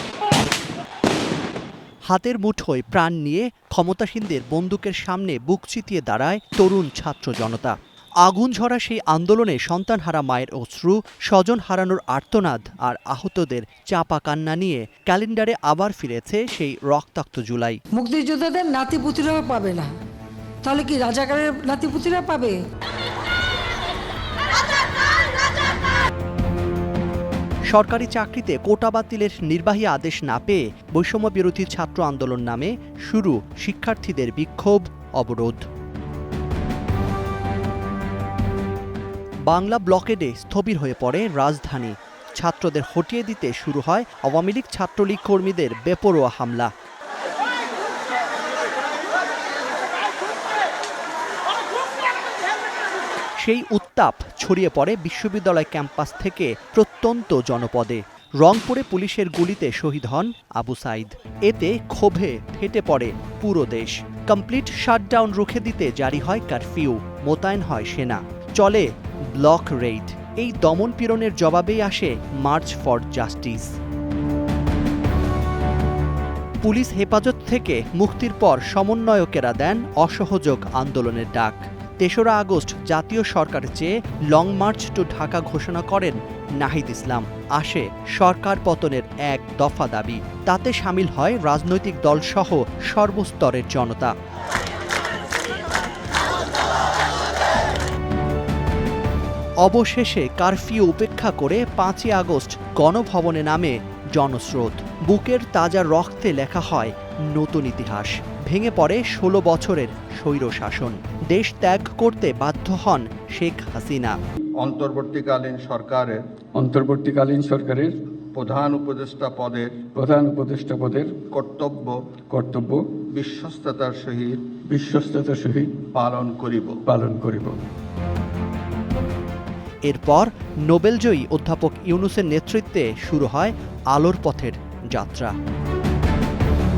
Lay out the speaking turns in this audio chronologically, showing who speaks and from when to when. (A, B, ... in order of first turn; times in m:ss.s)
0:02.1-0:17.8 A
0:18.0-0:20.0 B
0:20.6-0:22.6 B
0:27.7-0:35.6 A
0:39.5-0:46.7 A
0:53.4-1:13.7 A
1:16.6-1:34.2 A
1:39.6-1:54.2 A
1:54.6-1:56.2 C
1:56.6-1:58.0 D
1:58.3-1:59.8 C
1:59.9-2:01.2 D
2:01.3-2:02.0 C
2:02.3-2:03.0 D
2:03.1-2:04.6 C
2:04.7-2:05.8 D
2:05.9-2:06.8 C
2:06.9-2:07.6 D
2:09.8-2:15.3 A